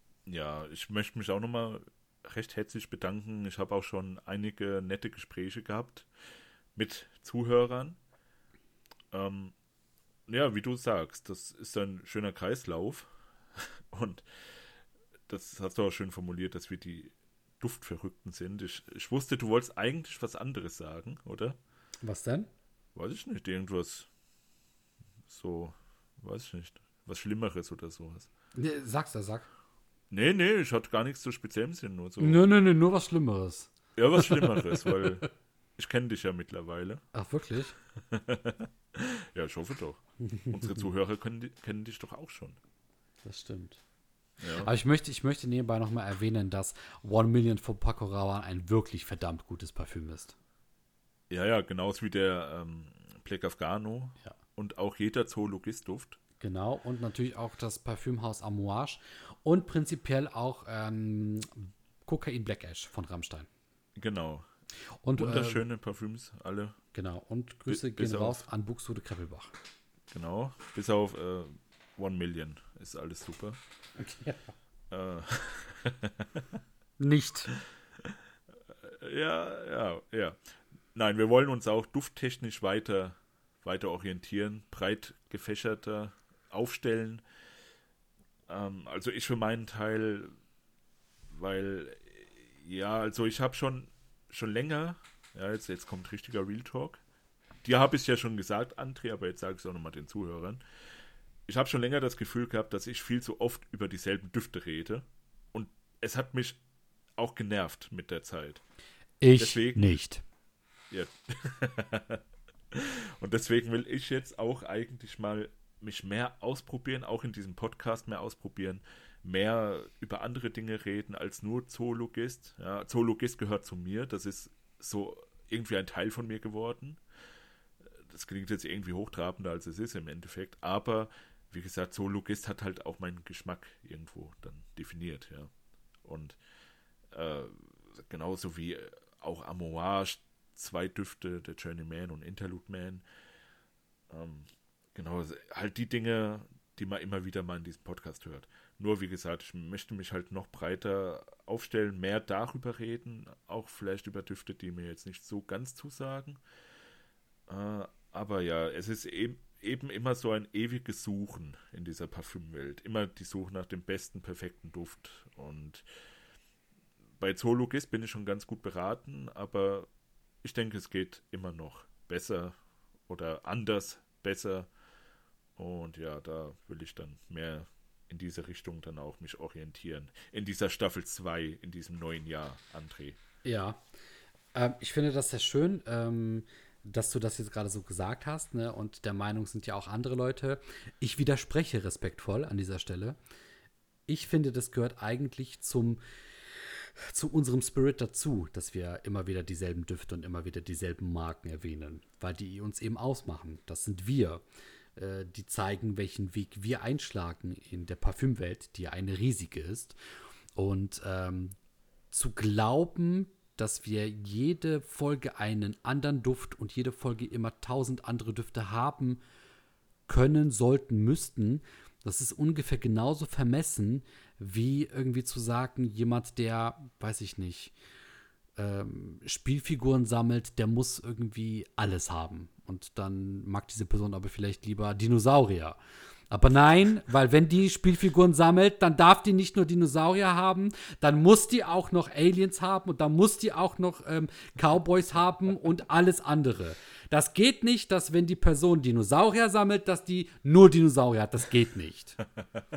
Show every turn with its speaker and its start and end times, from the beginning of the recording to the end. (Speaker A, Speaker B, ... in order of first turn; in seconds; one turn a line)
Speaker A: 0.3-6.1
Speaker A: 6.7-8.0
Speaker A: 9.1-9.5
Speaker A: 10.3-14.6
Speaker A: 15.3-21.6
Speaker B: 22.0-22.5
Speaker A: 22.9-24.1
Speaker A: 25.3-28.3
Speaker B: 28.5-29.5
Speaker A: 30.1-32.4
Speaker B: 32.2-35.3
Speaker A: 34.0-35.2
Speaker A: 35.8-37.0
Speaker B: 37.1-37.8
Speaker A: 38.0-42.6
Speaker B: 40.2-40.8
Speaker B: 43.2-43.8
Speaker A: 44.4-44.7
Speaker B: 44.5-50.4
Speaker A: 51.3-56.2
Speaker B: 56.4-63.5
Speaker A: 64.0-64.5
Speaker B: 65.0-65.6
Speaker A: 65.2-66.8
Speaker B: 66.9-69.5
Speaker A: 67.7-68.4
Speaker A: 70.1-73.6
Speaker B: 74.0-74.4
Speaker A: 74.9-76.5
Speaker B: 77.0-77.5
Speaker A: 77.6-78.2
Speaker A: 78.8-80.4
Speaker A: 80.9-87.2
Speaker A: 88.5-90.3
Speaker A: 91.3-97.0
Speaker A: 97.6-100.6
Speaker A: 101.5-106.6
Speaker A: 107.2-108.6
Speaker B: 109.2-110.2
Speaker A: 109.3-109.9
Speaker A: 110.9-127.0
Speaker A: 128.0-135.5
Speaker A: 136.0-136.4
Speaker A: 137.1-143.0
Speaker A: 144.1-156.4
Speaker A: 157.5-165.8
Speaker A: 167.2-169.9
Speaker A: 170.4-172.6
Speaker A: 173.1-174.7
Speaker A: 175.6-183.2
Speaker B: 183.4-183.8
Speaker B: 184.5-193.2
Speaker B: 194.1-196.0
Speaker B: 196.6-204.4
Speaker B: 204.9-209.9
Speaker B: 210.6-211.5
Speaker B: 212.1-219.2
Speaker B: 220.1-227.7
Speaker B: 228.6-235.8
Speaker B: 236.3-252.2